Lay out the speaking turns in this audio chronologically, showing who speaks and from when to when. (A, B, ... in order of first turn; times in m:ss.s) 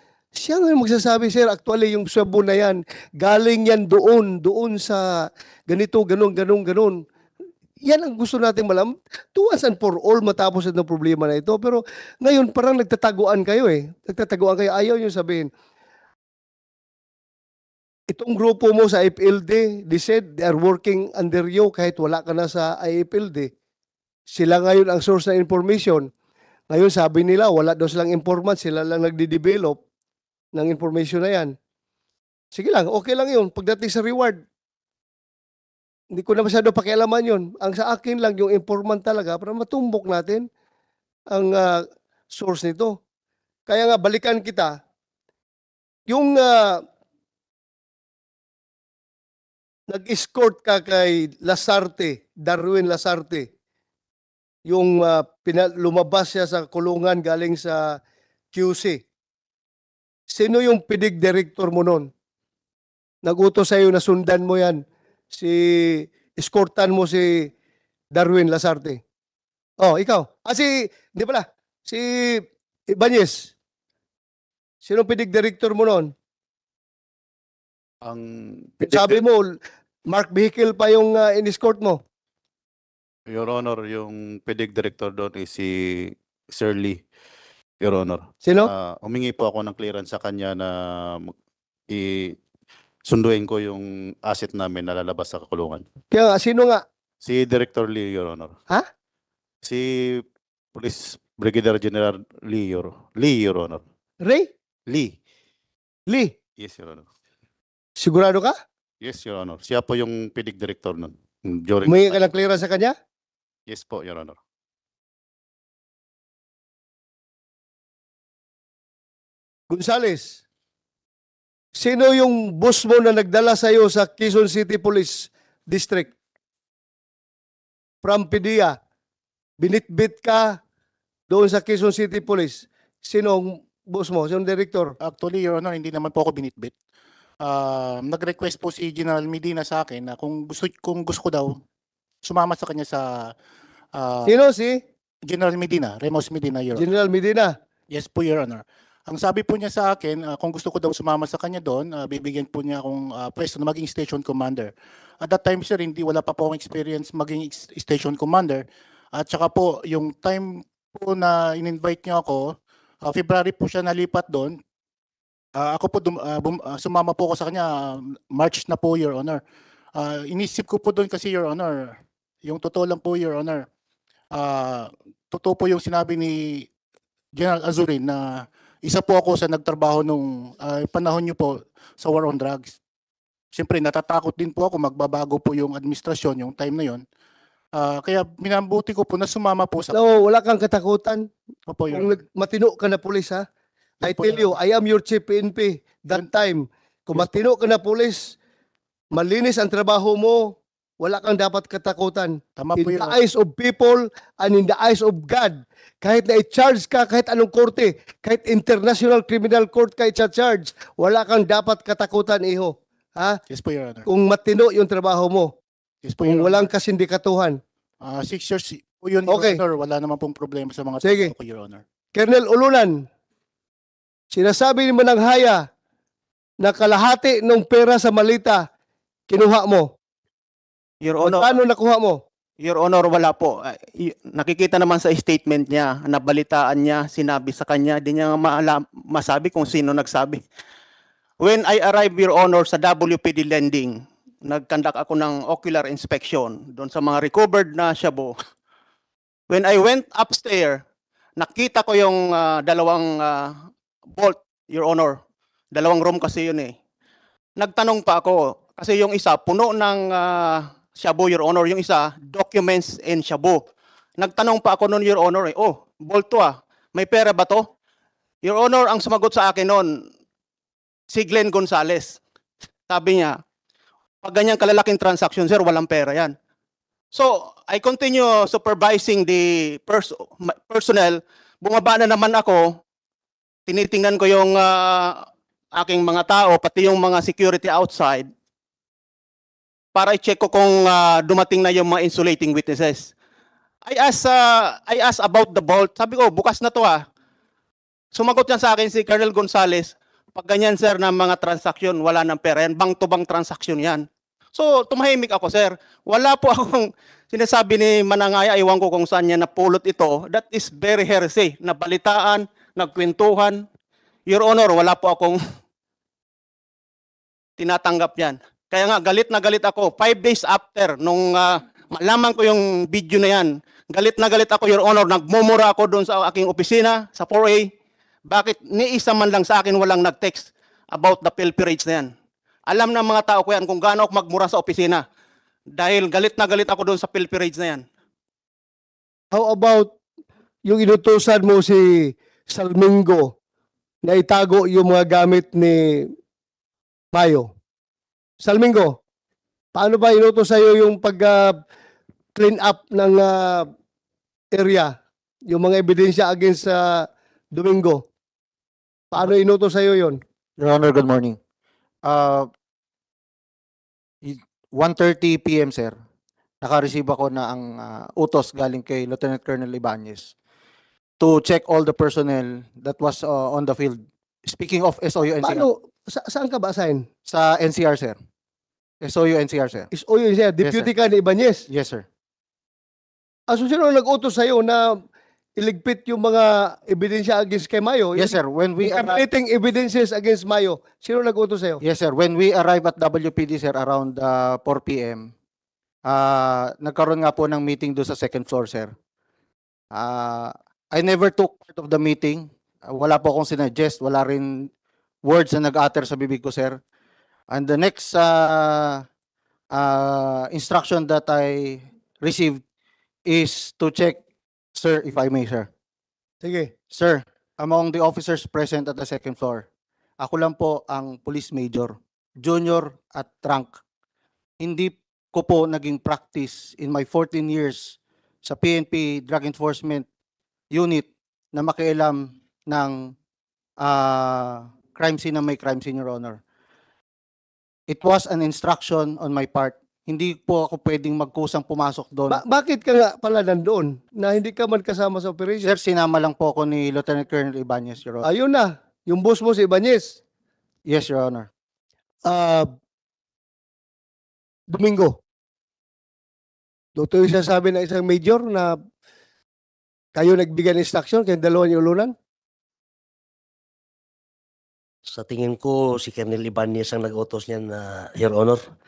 0:00.4-0:07.0 A
0:07.8-0:15.5 A
0:18.1-0:23.5 A
0:24.3-0:26.1 A
0:26.7-0:29.8 A
0:30.6-0:31.6 A
0:32.5-0:34.4 A
0:36.1-0:40.5 A
0:41.3-0:43.0 A
0:43.7-0:44.7 A
0:46.1-0:46.8 A
0:49.9-0:53.5 A
0:54.7-0:58.0 A
0:58.5-0:59.0 A
1:00.3-1:02.1 A
1:03.2-1:04.8 A
1:05.3-1:07.5 A
1:08.1-1:09.0 A
1:09.8-1:13.5 A
1:14.8-1:16.1 A
1:18.0-1:19.2 B
1:18.8-1:19.5 A
1:20.1-1:22.0 A
1:23.3-1:27.0 B
1:27.8-1:31.4 B
1:28.4-1:28.7 A
1:31.9-1:32.4 B
1:33.1-1:35.8 B
1:36.1-1:36.8 A
1:37.2-1:38.6 B
1:39.6-1:40.2 B
1:40.8-1:43.8 B
1:44.9-1:45.2 B
1:46.6-1:47.1 B
1:48.0-1:48.6 A
1:49.0-1:52.2 B
1:51.9-1:53.0 A
1:53.7-1:54.4 B
1:59.7-2:00.4 A
2:01.8-2:06.1 A
2:08.0-2:08.8 A
2:09.6-2:10.6 A
2:11.3-2:15.0 A
2:15.0-2:16.7 C
2:17.4-2:21.6 C
2:22.2-2:23.3 C
2:23.9-2:24.3 C
2:24.2-2:24.8 A
2:25.3-2:26.8 C
2:26.8-2:27.5 A
2:27.9-2:44.6 C
2:45.6-2:49.4 C
2:50.0-2:53.7 C
2:54.3-2:56.7 C
2:57.4-3:02.8 C
3:03.5-3:07.0 C
3:07.8-3:10.0 C
3:09.9-3:11.3 A
3:11.7-3:12.2 C
3:11.9-3:13.4 A
3:14.0-3:18.4 A
3:14.0-3:14.6 C
3:19.1-3:33.4 A
3:22.6-3:23.2 C
3:33.5-3:34.1 C
3:34.1-3:35.5 A
3:36.0-3:36.7 C
3:36.3-3:37.6 A
3:38.0-3:41.8 C
3:39.3-3:39.6 A
3:41.0-3:41.3 A
3:42.2-3:43.0 A
3:44.3-3:45.6 A
3:46.6-3:48.6 A
3:49.3-3:49.9 A
3:51.0-3:51.6 D
3:51.2-3:52.2 A
3:52.6-4:00.4 D
4:01.4-4:08.4 D
4:09.5-4:10.8 D
4:11.4-4:13.6 D
4:14.2-4:15.2 D
4:15.7-4:16.7 D
4:17.6-4:23.6 D
4:24.2-4:27.7 D
4:28.4-4:29.9 D
4:31.1-4:32.2 D
4:32.9-4:33.4 D
4:34.2-4:36.3 D
4:37.1-4:42.8 D
4:43.7-4:48.3 D
4:50.0-4:53.1 D
4:53.8-4:57.0 D
4:58.1-5:13.6 D
5:14.3-5:15.4 D
5:17.6-5:27.7 D
5:28.3-5:32.1 D
5:32.7-5:35.0 D
5:35.8-5:37.8 D
5:39.3-5:39.9 A
5:40.6-5:43.3 A
5:44.0-5:46.1 A
5:47.1-5:47.5 A
5:48.4-5:49.0 A
5:49.8-5:51.6 A
5:52.4-5:53.7 A
5:54.5-5:54.9 A
5:55.5-5:58.0 A
5:59.1-6:00.2 A
6:00.6-6:01.4 E
6:02.1-6:02.5 E
6:04.2-6:05.9 E
6:06.6-6:10.3 E
6:11.2-6:15.6 E
6:15.4-6:17.1 A
6:17.3-6:18.2 E
6:19.0-6:19.9 E
6:19.9-6:21.6 A
6:20.6-6:20.9 E
6:21.7-6:22.0 E
6:23.5-6:25.0 A
6:25.6-6:31.8 A
6:28.2-6:29.2 E
6:31.8-6:35.2 E
6:36.1-6:38.9 E
6:39.9-6:44.7 E
6:45.2-6:46.8 E
6:47.5-6:49.0 E
6:49.8-6:52.6 E
6:53.3-6:54.2 E
6:54.8-6:55.7 E
6:56.4-6:56.7 A
6:56.9-6:59.6 E
7:00.2-7:03.7 E
7:04.6-7:10.0 E
7:10.7-7:13.0 E
7:13.8-7:16.4 E
7:17.9-7:22.4 E
7:22.3-7:25.8 A
7:25.6-7:28.3 E
7:28.2-7:30.2 A
7:30.9-7:31.5 E
7:32.3-7:32.7 A
7:34.7-7:35.2 A
7:37.0-7:38.8 A
7:40.2-7:42.1 A
7:45.1-7:48.7 F